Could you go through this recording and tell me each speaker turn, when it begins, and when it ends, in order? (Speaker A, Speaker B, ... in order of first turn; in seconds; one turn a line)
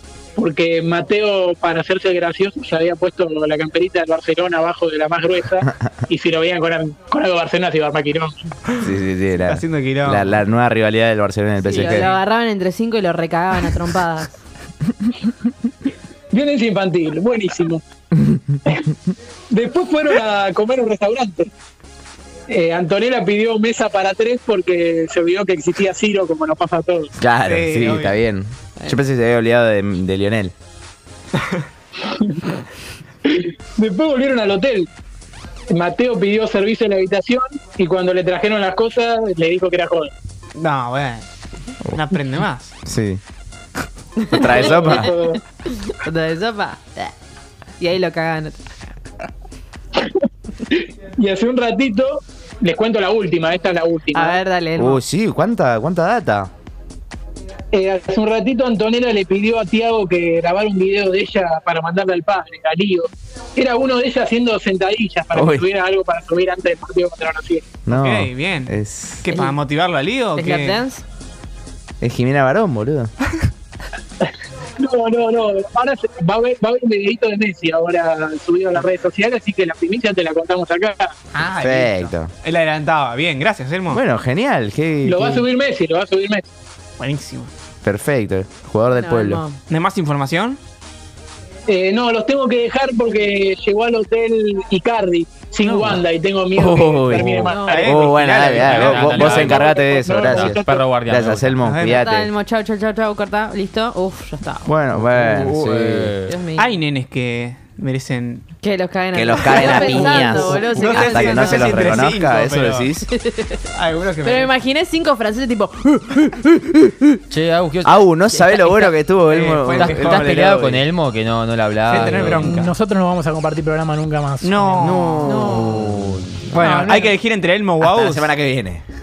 Speaker A: 0.3-8.3
Speaker B: 8.8-12.1
Speaker C: 9.4-10.3
Speaker D: 11.6-14.3
Speaker C: 11.7-12.2
Speaker A: 16.3-17.8
Speaker A: 19.5-21.5
Speaker A: 22.5-27.1
Speaker B: 27.2-30.5
Speaker C: 27.4-28.2
Speaker A: 32.1-32.4
Speaker A: 33.2-34.9
Speaker A: 35.7-40.1
Speaker C: 40.5-41.2
Speaker C: 41.9-42.7
Speaker B: 42.8-43.2
Speaker D: 44.2-44.6
Speaker B: 44.3-45.1
Speaker A: 44.4-45.4
Speaker D: 46.0-47.1
Speaker D: 47.8-48.6
Speaker A: 50.7-54.4
Speaker D: 54.1-55.0
Speaker B: 54.8-56.5
Speaker A: 57.7-67.7
Speaker B: 65.3-65.7
Speaker B: 67.8-69.3
Speaker C: 67.9-70.8
Speaker D: 70.3-71.0
Speaker B: 72.0-73.1
Speaker A: 74.8-81.1
Speaker C: 81.3-84.0
Speaker B: 81.5-82.3
Speaker B: 83.9-85.5
Speaker A: 85.0-86.5
Speaker C: 87.0-87.5
Speaker B: 87.8-89.4
Speaker D: 88.9-89.6
Speaker C: 89.7-90.6
Speaker A: 91.7-97.9
Speaker B: 96.5-102.3
Speaker D: 97.4-97.8
Speaker C: 97.7-99.5
Speaker E: 98.6-101.6
Speaker A: 98.9-100.7
Speaker C: 101.6-102.1
Speaker D: 102.0-104.8
Speaker B: 104.7-106.1
Speaker E: 105.0-106.3
Speaker D: 106.2-106.7
Speaker C: 106.6-108.5
Speaker D: 108.6-112.0
Speaker B: 109.1-113.1
Speaker C: 110.7-113.0
Speaker D: 113.1-113.6
Speaker C: 113.7-114.5
Speaker D: 114.2-117.2
Speaker E: 117.3-118.0
Speaker B: 117.8-120.8
Speaker D: 118.3-119.0
Speaker C: 119.2-120.3
Speaker E: 119.8-122.7
Speaker C: 121.8-122.7
Speaker F: 122.3-125.0
Speaker C: 124.4-125.3
Speaker B: 124.7-126.7
Speaker D: 125.2-126.0
Speaker C: 126.5-128.4
Speaker F: 126.6-127.2
Speaker B: 127.8-128.8